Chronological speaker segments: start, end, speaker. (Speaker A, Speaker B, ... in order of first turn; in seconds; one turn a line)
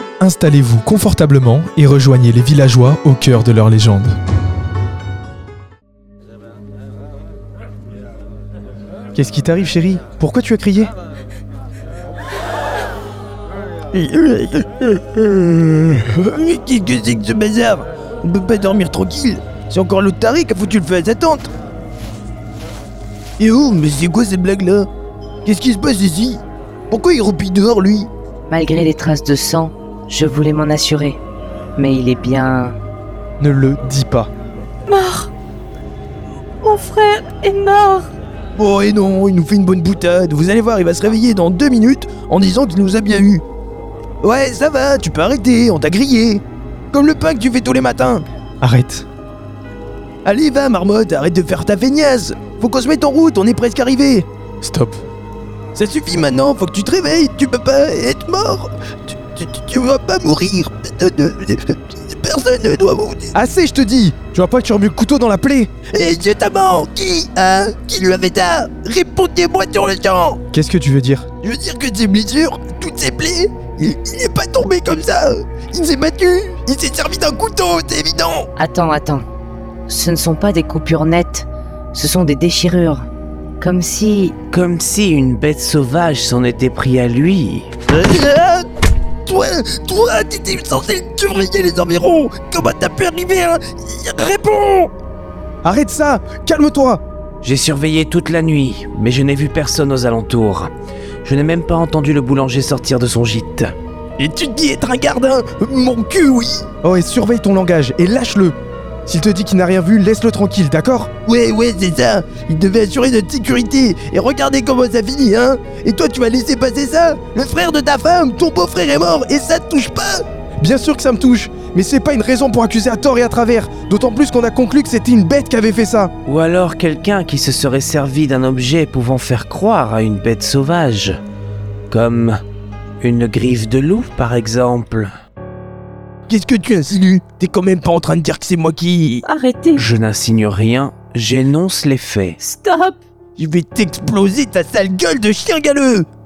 Speaker A: 0.2-4.1
Speaker A: 9.1-10.9
Speaker B: 13.9-21.5
Speaker B: 23.4-24.9
Speaker B: 25.4-28.1
Speaker C: 28.5-31.2
Speaker C: 31.8-32.7
Speaker A: 33.4-34.3
Speaker D: 34.9-35.3
Speaker D: 36.6-38.1
Speaker B: 38.5-43.4
Speaker B: 44.2-48.2
Speaker A: 48.6-49.0
Speaker B: 50.2-54.3
Speaker A: 54.6-55.0
Speaker B: 55.7-63.3
Speaker A: 63.3-65.7
Speaker B: 65.9-70.4
Speaker A: 70.5-71.3
Speaker B: 71.4-78.5
Speaker C: 78.6-79.2
Speaker C: 79.9-83.0
Speaker C: 83.6-84.3
Speaker E: 84.5-87.7
Speaker B: 87.9-88.7
Speaker B: 89.2-94.9
Speaker A: 95.6-97.0
Speaker E: 97.4-100.7
Speaker E: 101.2-103.7
Speaker B: 104.2-106.7
Speaker A: 106.8-108.5
Speaker A: 109.1-111.1
Speaker B: 111.2-120.2
Speaker A: 120.6-126.1
Speaker E: 126.3-131.2
Speaker E: 131.9-132.4
Speaker E: 133.0-135.1
Speaker B: 136.3-139.2
Speaker D: 139.2-139.9
Speaker E: 139.7-142.4
Speaker D: 142.4-143.0
Speaker B: 143.4-146.1